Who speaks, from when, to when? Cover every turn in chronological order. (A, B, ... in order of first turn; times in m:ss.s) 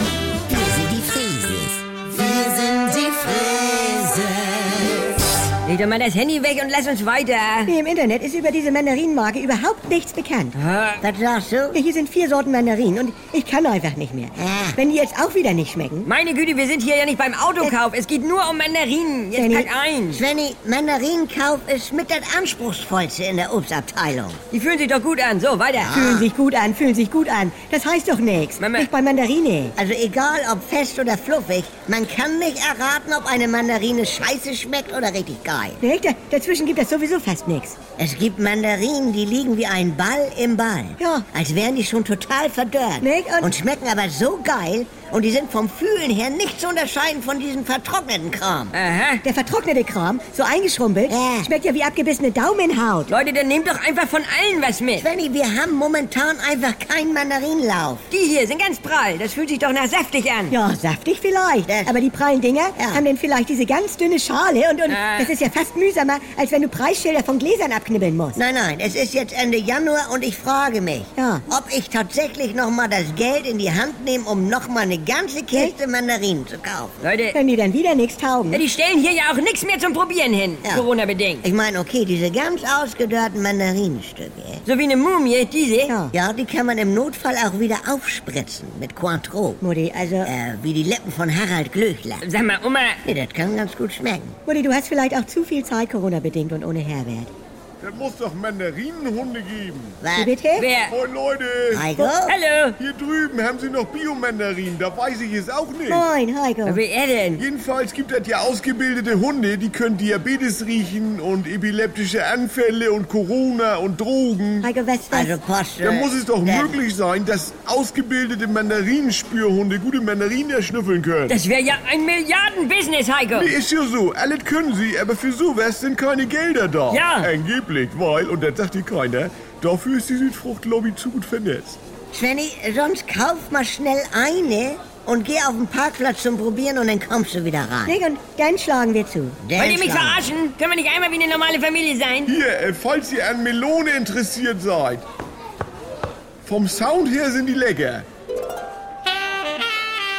0:00.5-0:01.8 A
0:02.6-0:04.9 A
0:05.6-0:07.7 B
0:07.7-0:10.6 C
0:10.6-0:11.0 B
0:11.0-0:11.8 A
0:11.7-0:16.1 C
0:14.4-0:14.8 A
0:16.0-0:20.2 B
0:19.4-0:19.7 C
0:20.1-0:24.4 A
0:24.5-0:26.0 B
0:25.8-0:26.3 A
0:25.9-0:29.7 C
0:28.6-0:28.9 B
0:29.8-0:35.8 A
0:35.8-0:37.8 C
0:38.0-0:48.7 A
0:41.0-0:41.3 C
0:43.0-0:43.5 C
0:48.7-0:49.2 B
0:49.2-0:53.1 C
0:51.1-0:51.5 A
0:53.1-0:55.0 B
0:55.0-0:58.0 A
0:58.1-1:00.6 B
1:00.5-1:08.4 C
1:01.7-1:01.9 A
1:02.8-1:03.0 A
1:04.9-1:05.3 B
1:08.4-1:17.0 A
1:11.2-1:11.4 C
1:17.0-1:17.4 B
1:17.3-1:18.6 C
1:18.5-1:21.4 B
1:21.4-1:24.6 A
1:24.6-1:25.9 B
1:25.9-1:26.1 C
1:26.1-1:29.6 A
1:29.6-1:30.3 C
1:30.2-1:32.2 A
1:32.2-1:33.0 B
1:33.0-1:34.4 A
1:34.5-1:37.3 C
1:37.8-1:40.0 D
1:40.0-1:40.3 A
1:40.2-1:40.7 C
1:40.6-1:40.9 B
1:40.9-1:41.9 D
1:41.7-1:42.4 A
1:42.2-1:42.8 B
1:42.8-1:46.0 D
1:45.9-1:46.8 C
1:46.6-1:47.4 B
1:47.4-1:54.7 D
1:54.6-1:55.3 C
1:55.1-1:56.8 A
1:55.8-2:01.4 D
2:01.3-2:03.5 B
2:03.3-2:11.8 D
2:06.9-2:07.3 B
2:12.1-2:18.0 A
2:17.9-2:19.4 C
2:19.4-2:20.2 A
2:19.6-2:22.3 B
2:22.3-2:25.1 D
2:26.5-2:28.1 D